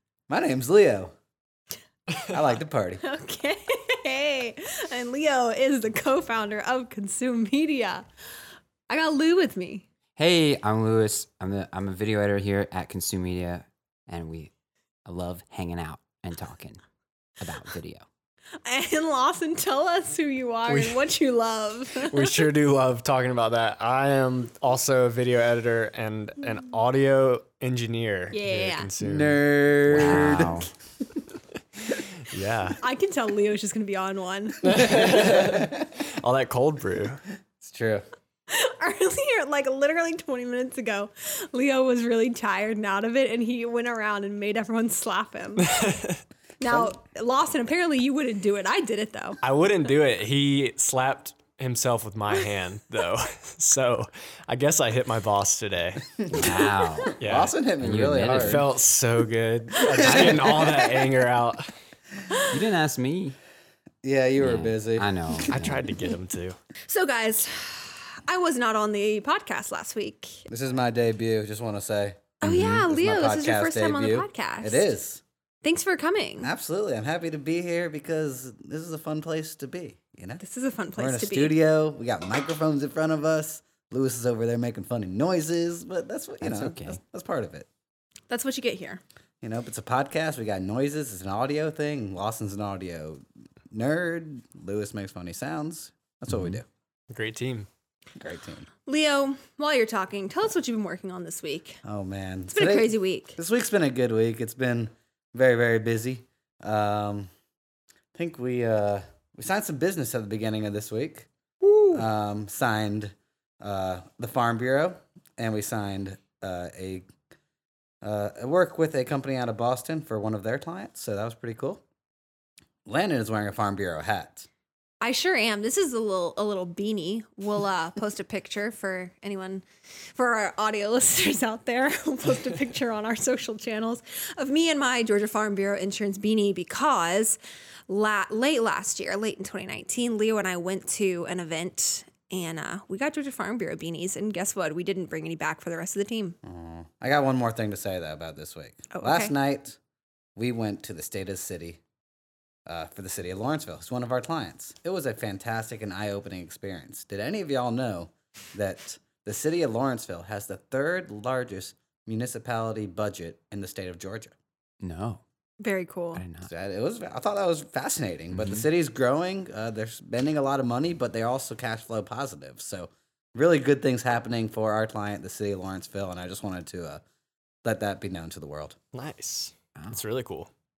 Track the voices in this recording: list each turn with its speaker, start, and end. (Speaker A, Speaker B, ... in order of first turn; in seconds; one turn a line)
Speaker A: 0.3-1.1
Speaker A: 2.2-3.0
Speaker B: 3.0-8.1
Speaker B: 8.9-9.8
Speaker C: 10.2-14.5
Speaker C: 15.0-16.8
Speaker C: 17.4-18.0
Speaker B: 18.6-22.4
Speaker D: 20.7-21.0
Speaker D: 22.0-29.4
Speaker B: 28.3-28.9
Speaker A: 29.0-30.6
Speaker C: 29.9-30.7
Speaker D: 32.2-32.8
Speaker B: 32.8-34.6
Speaker D: 34.6-37.2
Speaker A: 34.8-35.8
Speaker A: 37.6-38.0
Speaker B: 38.5-45.7
Speaker D: 45.6-46.2
Speaker B: 46.6-49.4
Speaker D: 49.4-56.1
Speaker A: 56.2-58.7
Speaker C: 56.3-57.2
Speaker D: 57.2-57.5
Speaker C: 57.8-58.7
Speaker D: 58.2-61.7
Speaker B: 59.7-61.0
Speaker A: 60.0-60.7
Speaker B: 62.3-62.6
Speaker C: 62.5-63.4
Speaker A: 64.0-65.5
Speaker C: 64.4-65.9
Speaker D: 65.4-66.6
Speaker B: 66.9-70.5
Speaker A: 70.5-75.2
Speaker C: 72.4-72.9
Speaker B: 72.4-74.8
Speaker B: 75.6-76.5
Speaker A: 76.4-80.4
Speaker B: 80.4-81.5
Speaker A: 81.0-87.7
Speaker C: 86.4-87.0
Speaker B: 88.3-89.0
Speaker A: 89.4-96.7
Speaker C: 96.3-96.6
Speaker D: 97.1-97.7
Speaker A: 98.2-98.7
Speaker B: 98.8-101.8
Speaker A: 101.8-107.3
Speaker B: 102.5-103.4
Speaker A: 108.1-111.3
Speaker B: 111.6-112.0
Speaker A: 111.9-117.1
Speaker A: 118.0-121.8
Speaker A: 122.8-124.5
Speaker B: 125.0-146.4
Speaker A: 146.4-149.8
Speaker B: 148.9-149.3
Speaker A: 150.3-151.8
Speaker A: 152.7-164.3
Speaker C: 164.8-165.2
Speaker B: 165.6-166.2
Speaker C: 166.1-166.5
Speaker A: 166.4-177.0
Speaker C: 168.3-168.7
Speaker A: 177.6-178.8
Speaker D: 178.9-180.5